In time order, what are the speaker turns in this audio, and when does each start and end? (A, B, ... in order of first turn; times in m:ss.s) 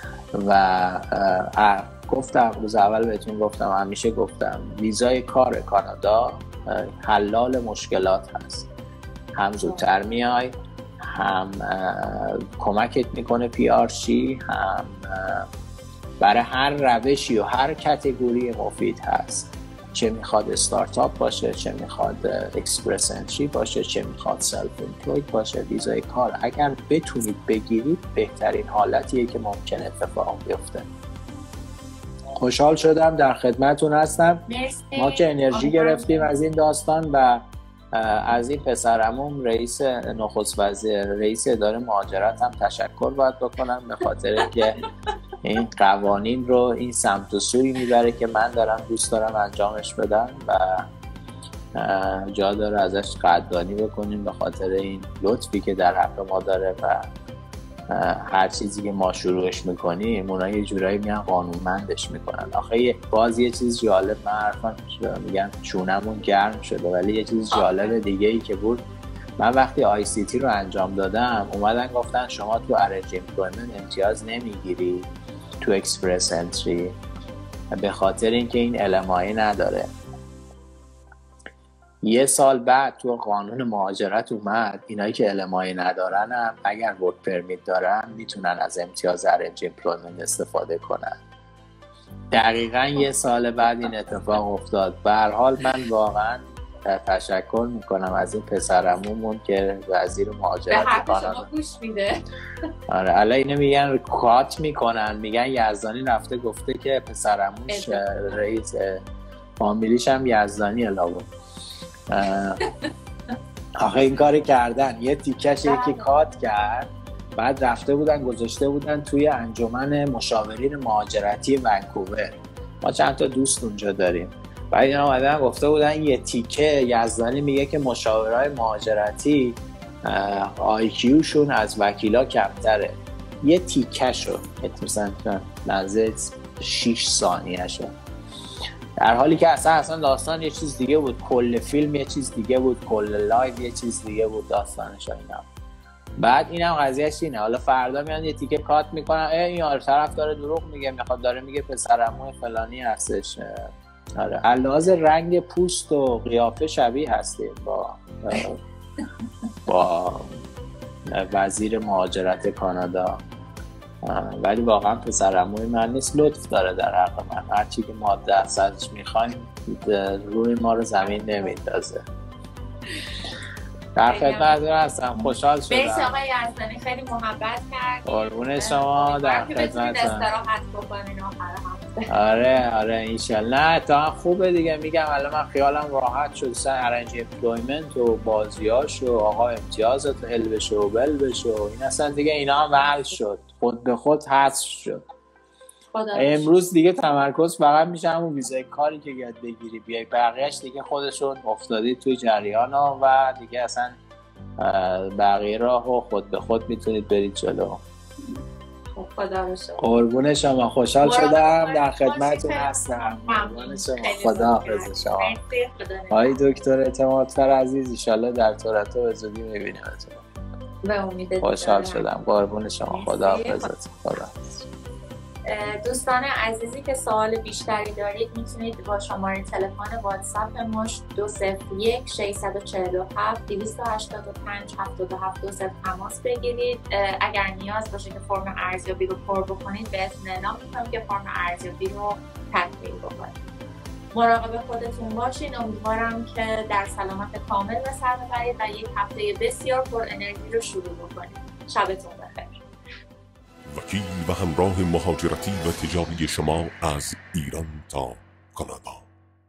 0:00.3-0:08.7 A
0:09.3-0:15.5 A
0:16.2-0:30.9 A
0:32.4-0:34.4 A
0:34.5-0:36.3 B
0:35.0-0:44.8 A
0:45.4-0:50.9 A
0:51.7-0:57.1 A
0:57.9-1:08.8 A
1:09.4-1:15.1 A
1:15.6-1:17.0 A
1:17.7-1:19.9 A
1:22.0-1:31.2 A
1:32.3-1:41.5 A
1:40.7-1:42.2 B
1:42.9-1:49.0 A
1:47.7-1:48.4 B
1:49.6-1:51.3 A
1:52.1-1:52.6 A
1:53.8-2:17.9 A
1:55.6-1:56.1 B
2:19.0-2:25.5 A
2:26.2-2:38.6 A
2:39.7-2:40.4 A
2:41.1-2:43.2 A
2:44.0-2:52.0 A
2:54.0-2:56.2 A
2:54.0-2:54.6 B
2:55.7-3:02.2 B
2:58.0-3:00.3 A
3:02.1-3:15.0 A
3:15.9-3:16.5 B
3:16.1-3:24.0 A
3:24.6-3:27.8 A
3:28.9-3:29.9 B
3:29.8-3:35.3 A
3:31.0-3:36.4 B
3:36.1-3:40.2 A
3:40.8-3:42.1 B
3:41.4-3:44.6 A
3:42.9-3:43.7 B
3:45.4-4:03.4 B
4:04.1-4:12.6 B
4:13.7-4:19.1 C